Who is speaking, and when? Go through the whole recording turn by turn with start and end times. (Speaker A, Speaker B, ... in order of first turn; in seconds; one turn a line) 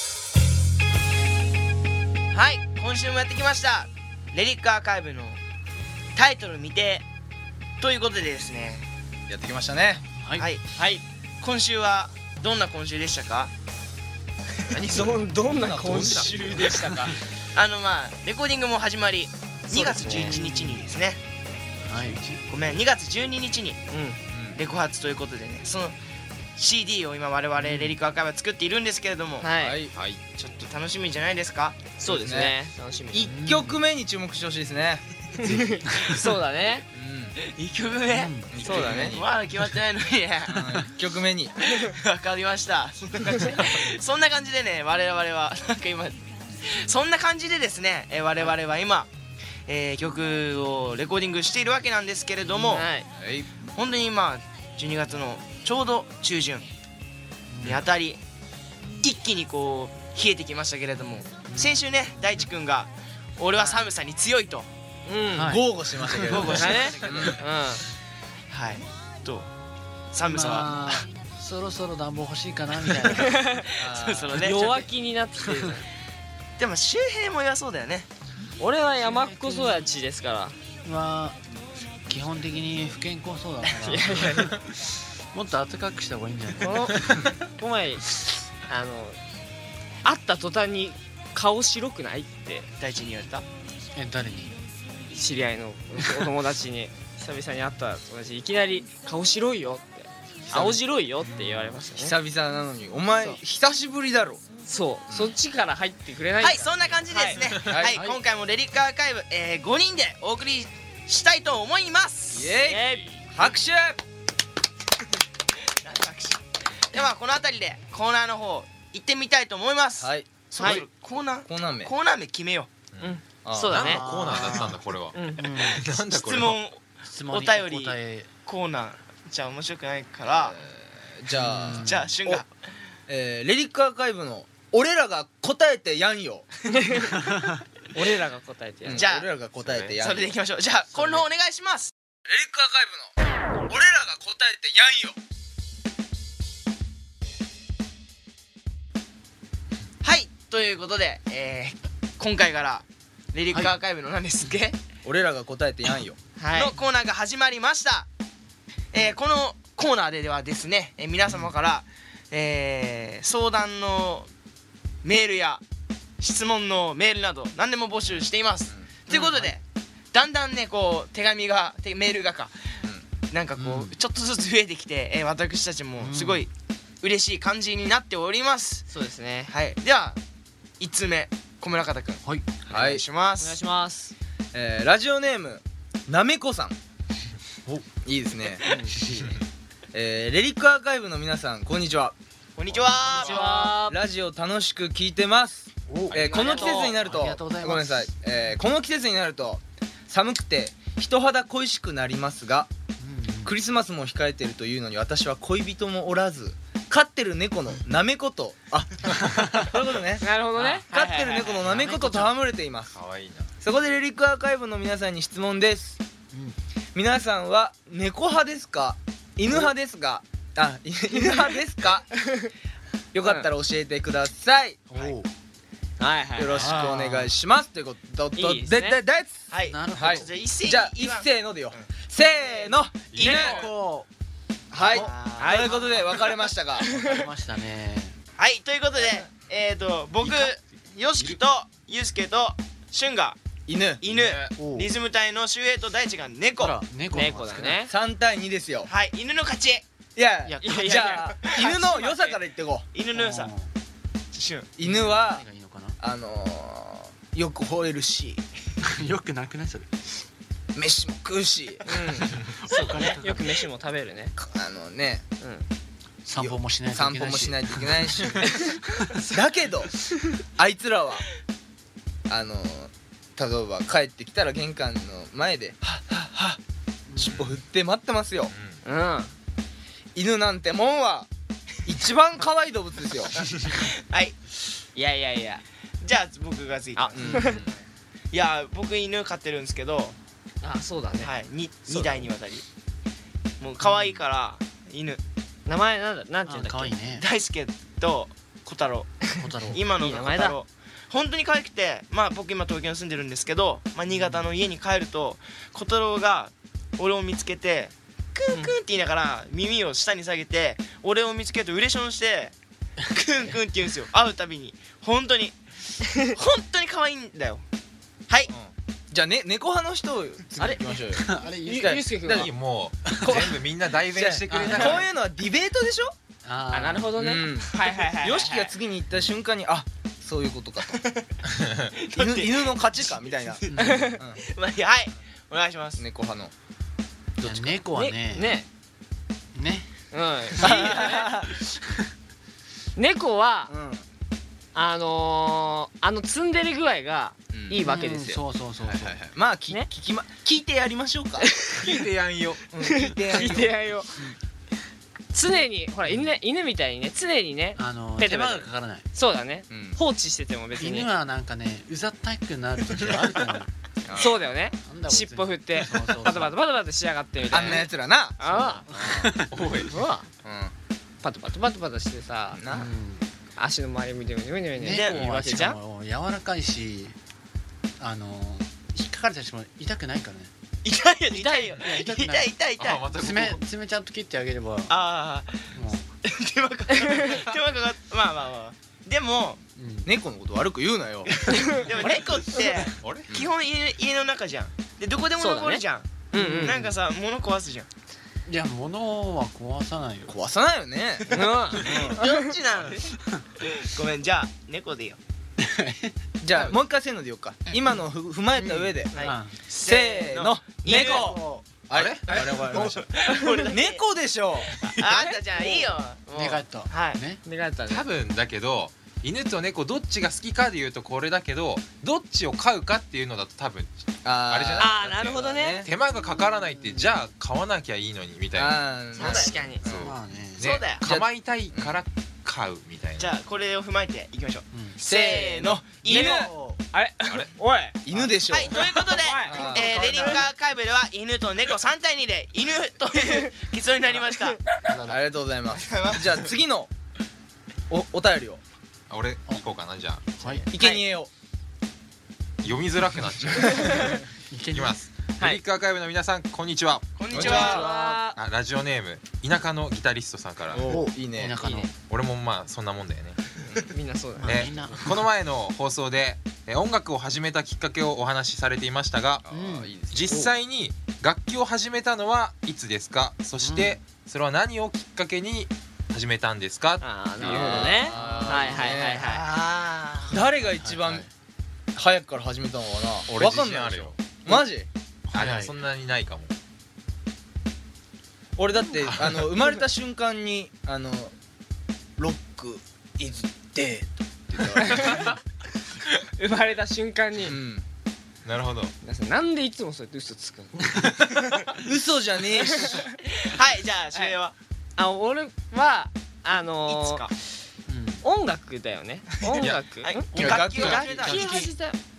Speaker A: 2.3-5.4
Speaker A: 6.1-7.0
Speaker A: 7.8-8.9
Speaker B: 9.3-10.0
Speaker C: 10.2-10.5
Speaker A: 10.3-13.5
Speaker D: 14.7-15.0
Speaker B: 14.8-16.8
Speaker E: 14.8-17.2
Speaker D: 15.9-16.8
Speaker A: 17.5-21.2
Speaker E: 19.7-20.4
Speaker C: 20.0-20.8
Speaker C: 21.8-22.4
Speaker A: 22.5-23.8
Speaker E: 23.9-24.2
Speaker B: 24.3-24.6
Speaker A: 24.6-26.0
Speaker A: 26.6-29.5
Speaker C: 27.6-27.9
Speaker E: 29.4-29.8
Speaker B: 29.6-29.9
Speaker D: 29.9-30.2
Speaker A: 30.4-31.9
Speaker E: 32.0-33.3
Speaker B: 32.0-32.5
Speaker B: 33.1-35.0
Speaker C: 33.3-33.8
Speaker E: 35.4-36.9
Speaker C: 35.4-36.3
Speaker B: 36.9-37.3
Speaker A: 37.4-40.6
Speaker C: 38.1-38.5
Speaker B: 38.5-39.2
Speaker E: 38.6-39.2
Speaker B: 40.5-41.5
Speaker A: 41.6-49.1
Speaker A: 49.6-52.9
Speaker E: 52.7-53.1
Speaker B: 53.2-53.5
Speaker A: 53.7-56.7
Speaker C: 57.5-57.8
Speaker A: 57.6-58.2
Speaker A: 59.0-64.7
Speaker C: 61.5-62.2
Speaker E: 65.1-65.6
Speaker C: 65.3-66.6
Speaker B: 65.5-67.4
Speaker A: 66.2-67.4
Speaker E: 66.4-67.8
Speaker A: 68.5-69.5
Speaker A: 70.1-71.0
Speaker C: 70.3-73.4
Speaker E: 73.2-73.5
Speaker A: 73.4-74.9
Speaker B: 73.8-74.4
Speaker E: 74.3-75.8
Speaker A: 76.6-78.1
Speaker E: 78.6-80.5
Speaker C: 79.0-79.9
Speaker C: 80.8-81.4
Speaker C: 82.1-84.7
Speaker E: 83.8-84.5
Speaker C: 85.3-87.3
Speaker E: 86.6-87.0
Speaker E: 87.6-89.2
Speaker E: 90.0-92.7
Speaker A: 92.8-93.4
Speaker C: 93.9-94.6
Speaker E: 95.1-102.1
Speaker B: 100.5-100.8
Speaker C: 101.4-101.7
Speaker B: 101.9-104.4
Speaker E: 104.6-107.4
Speaker A: 106.4-112.5
Speaker B: 107.7-108.2
Speaker B: 112.3-114.0
Speaker E: 112.6-113.2
Speaker A: 115.8-122.7
Speaker B: 120.0-120.8
Speaker E: 120.5-120.8
Speaker B: 121.5-121.9
Speaker D: 122.9-126.6
Speaker E: 123.0-124.1
Speaker B: 123.4-123.8
Speaker C: 123.7-125.8
Speaker E: 125.1-125.4
Speaker A: 126.1-130.6
Speaker C: 127.1-128.3
Speaker B: 130.3-132.4
Speaker C: 131.3-132.1
Speaker A: 131.7-132.5
Speaker B: 133.1-136.6
Speaker E: 136.6-137.3
Speaker E: 137.9-139.1
Speaker B: 138.8-140.3
Speaker A: 138.9-139.3
Speaker D: 139.6-140.0
Speaker A: 140.0-141.9
Speaker B: 142.2-143.1
Speaker B: 143.7-145.2
Speaker A: 150.0-154.8
Speaker B: 155.0-156.2
Speaker E: 156.4-156.7
Speaker A: 156.5-158.1
Speaker A: 158.9-164.3
Speaker A: 165.0-165.6
Speaker A: 166.2-169.6
Speaker B: 168.7-169.0
Speaker C: 169.1-169.5
Speaker A: 170.1-176.5
Speaker C: 173.6-173.9
Speaker C: 176.0-176.4
Speaker A: 177.0-178.9
Speaker E: 178.9-179.5
Speaker A: 179.5-180.2
Speaker A: 180.8-183.6
Speaker C: 182.2-182.5
Speaker B: 182.6-183.0
Speaker E: 183.4-184.1
Speaker B: 184.5-186.8
Speaker B: 187.9-188.6
Speaker E: 188.7-188.9
Speaker C: 188.7-189.4
Speaker B: 189.9-192.2
Speaker A: 192.6-193.4
Speaker D: 192.7-193.4
Speaker C: 192.8-193.8
Speaker E: 193.2-194.0
Speaker B: 193.8-202.7
Speaker C: 195.9-198.1
Speaker E: 196.1-197.0
Speaker C: 203.0-203.5
Speaker B: 203.4-210.2
Speaker E: 210.2-211.7
Speaker C: 210.6-210.8
Speaker B: 210.9-213.0
Speaker C: 211.6-212.3
Speaker D: 212.9-213.5
Speaker B: 213.6-216.0
Speaker B: 216.9-222.1
Speaker E: 222.1-222.5
Speaker B: 223.1-224.9
Speaker E: 223.2-223.5
Speaker C: 224.9-225.3
Speaker E: 226.0-226.6
Speaker B: 226.4-229.4
Speaker C: 226.5-227.3
Speaker E: 228.3-229.0
Speaker A: 229.5-231.9
Speaker C: 229.7-230.3
Speaker B: 229.9-233.7
Speaker D: 233.1-233.6
Speaker A: 233.2-233.6
Speaker C: 233.2-234.1
Speaker B: 234.7-236.8
Speaker A: 234.8-235.9
Speaker C: 234.8-235.1
Speaker E: 235.4-235.8
Speaker E: 236.8-237.2
Speaker C: 236.8-238.2
Speaker A: 238.4-243.4
Speaker D: 240.2-240.5
Speaker D: 241.1-241.4
Speaker B: 243.7-244.0
Speaker A: 244.0-246.8
Speaker D: 244.1-244.5
Speaker C: 244.6-244.9
Speaker C: 246.6-247.8
Speaker E: 247.1-247.9
Speaker B: 247.8-248.9
Speaker A: 248.8-249.8
Speaker B: 250.2-252.8
Speaker C: 250.4-251.2
Speaker E: 250.6-252.4
Speaker A: 251.1-251.7
Speaker A: 252.9-253.5
Speaker C: 253.1-253.7
Speaker A: 254.3-254.7
Speaker B: 254.8-255.4
Speaker C: 254.8-256.0
Speaker B: 256.0-258.4
Speaker C: 258.8-260.1
Speaker B: 260.7-261.9
Speaker E: 261.9-262.4
Speaker C: 262.3-263.5
Speaker A: 262.8-263.1
Speaker E: 262.9-264.3
Speaker B: 264.4-265.2
Speaker E: 265.4-265.6
Speaker C: 266.2-268.4
Speaker B: 266.4-268.5
Speaker E: 268.5-268.8
Speaker B: 269.3-270.0
Speaker B: 270.5-271.3
Speaker B: 272.3-276.6
Speaker C: 277.1-277.4
Speaker D: 277.2-277.6
Speaker B: 277.2-278.5
Speaker D: 278.5-278.8
Speaker E: 278.8-279.3
Speaker B: 280.1-281.3
Speaker B: 281.9-283.4
Speaker D: 283.4-283.7
Speaker A: 283.5-284.4
Speaker E: 284.9-285.6
Speaker A: 286.0-287.8
Speaker E: 286.9-287.5
Speaker B: 287.1-287.6
Speaker D: 287.4-287.7
Speaker A: 288.3-290.1
Speaker E: 290.6-291.3
Speaker A: 291.2-292.6
Speaker B: 291.9-292.2
Speaker A: 293.6-295.2
Speaker C: 293.8-294.1
Speaker E: 295.6-296.9
Speaker C: 296.5-297.2
Speaker A: 297.1-299.2
Speaker C: 299.4-299.8
Speaker A: 299.7-312.5
Speaker E: 300.0-300.6
Speaker C: 304.1-304.4
Speaker A: 313.1-317.6
Speaker B: 318.5-322.5
Speaker E: 320.6-320.8
Speaker C: 321.1-322.1
Speaker E: 321.4-322.5
Speaker D: 322.4-325.0
Speaker C: 323.0-323.4
Speaker B: 323.2-326.1
Speaker C: 324.5-325.1
Speaker C: 326.4-327.1
Speaker E: 326.7-328.7
Speaker B: 327.2-327.7
Speaker A: 327.7-328.3
Speaker B: 328.2-330.9
Speaker C: 329.1-329.4
Speaker A: 330.9-331.3
Speaker D: 331.5-331.9
Speaker A: 331.9-336.0
Speaker B: 332.1-333.6
Speaker C: 333.7-334.1
Speaker E: 333.8-334.2
Speaker B: 336.0-336.5
Speaker C: 337.4-338.6
Speaker E: 337.4-338.7
Speaker C: 339.5-339.9
Speaker E: 340.1-341.3
Speaker B: 340.6-341.6
Speaker E: 342.9-343.7
Speaker B: 343.7-344.0
Speaker E: 344.7-348.4
Speaker B: 347.5-347.8
Speaker C: 347.8-349.2
Speaker B: 348.8-351.6
Speaker E: 351.4-352.0
Speaker D: 351.7-352.6
Speaker B: 352.7-353.8
Speaker E: 352.8-354.3
Speaker E: 355.3-361.1
Speaker C: 357.8-359.1
Speaker B: 359.7-360.0
Speaker C: 360.8-363.7
Speaker D: 362.9-363.4
Speaker B: 364.1-364.4
Speaker E: 364.1-368.9
Speaker C: 364.8-366.5
Speaker B: 367.5-368.4
Speaker C: 368.4-369.6
Speaker B: 368.9-369.4
Speaker D: 369.5-370.0
Speaker E: 369.9-370.3
Speaker B: 370.4-370.7
Speaker E: 371.2-372.8
Speaker B: 372.5-372.9
Speaker C: 372.7-373.3
Speaker E: 373.6-375.8
Speaker C: 374.8-377.2
Speaker A: 374.8-375.2
Speaker C: 378.0-380.5
Speaker A: 380.8-383.0
Speaker D: 381.3-381.9
Speaker C: 381.7-382.5
Speaker D: 382.8-383.6
Speaker C: 383.1-385.0
Speaker A: 384.9-389.6
Speaker C: 385.8-386.0
Speaker C: 389.8-390.1
Speaker B: 390.1-391.3
Speaker E: 391.5-392.1
Speaker A: 391.5-397.9
Speaker D: 393.0-393.4
Speaker E: 395.4-396.8
Speaker C: 396.3-396.9
Speaker C: 398.4-400.4
Speaker B: 400.3-402.2
Speaker E: 401.3-402.5
Speaker A: 401.3-403.0
Speaker A: 403.6-405.2
Speaker C: 405.6-406.1
Speaker B: 406.4-409.1
Speaker C: 408.6-409.6
Speaker A: 409.1-411.4
Speaker B: 409.7-413.0
Speaker E: 410.9-411.2
Speaker C: 410.9-411.7
Speaker D: 411.9-412.9
Speaker A: 412.5-414.0
Speaker E: 412.8-413.3
Speaker B: 413.7-414.9
Speaker A: 414.8-417.2
Speaker E: 415.1-415.4
Speaker C: 416.3-417.4
Speaker E: 417.4-418.1
Speaker D: 417.9-433.3
Speaker B: 424.2-425.9
Speaker E: 424.8-425.8
Speaker C: 426.1-427.2
Speaker B: 428.5-430.1
Speaker A: 429.2-429.5
Speaker E: 429.2-429.8
Speaker C: 430.0-430.7
Speaker A: 430.6-431.0
Speaker B: 431.0-432.0
Speaker A: 433.2-436.5
Speaker C: 434.7-435.0
Speaker B: 435.0-436.5
Speaker E: 436.1-438.1
Speaker C: 436.3-436.8
Speaker D: 437.3-437.6
Speaker B: 438.1-438.8
Speaker A: 438.5-444.6
Speaker E: 438.7-440.4
Speaker B: 439.4-440.4
Speaker C: 444.8-445.2
Speaker B: 445.0-446.9
Speaker A: 445.7-446.5
Speaker B: 447.9-448.6
Speaker D: 449.1-450.4
Speaker C: 450.4-450.6
Speaker A: 450.4-451.0
Speaker B: 450.7-451.3
Speaker D: 452.6-454.2
Speaker E: 453.8-454.1
Speaker C: 454.5-454.9
Speaker D: 454.7-457.7
Speaker A: 457.2-457.9
Speaker B: 457.3-458.3
Speaker E: 457.4-458.3
Speaker D: 458.3-461.0
Speaker B: 460.7-461.7
Speaker C: 460.9-461.9
Speaker D: 461.9-463.6
Speaker B: 463.6-463.9
Speaker E: 463.9-464.7
Speaker C: 464.4-465.2
Speaker D: 464.4-469.4
Speaker B: 469.4-470.5
Speaker C: 469.5-469.9
Speaker D: 470.1-478.0
Speaker C: 473.6-474.0
Speaker E: 477.0-479.4
Speaker B: 477.4-479.3
Speaker C: 478.0-479.0
Speaker A: 479.2-480.4
Speaker B: 480.3-481.2
Speaker C: 480.3-481.3
Speaker B: 481.9-484.9
Speaker D: 483.2-484.4
Speaker C: 485.3-485.8
Speaker D: 485.3-486.5
Speaker B: 488.6-491.3
Speaker D: 489.0-489.5
Speaker B: 492.2-495.2
Speaker E: 494.7-495.3
Speaker D: 495.0-495.4
Speaker E: 496.4-497.6
Speaker B: 497.4-497.8
Speaker D: 498.4-498.9
Speaker E: 499.0-501.1
Speaker B: 501.8-503.0
Speaker E: 502.5-503.1
Speaker A: 503.2-504.5
Speaker E: 505.0-507.3
Speaker A: 506.9-507.3
Speaker C: 507.9-508.2
Speaker E: 508.2-512.0
Speaker A: 509.5-511.6
Speaker C: 510.3-510.7
Speaker B: 510.3-511.7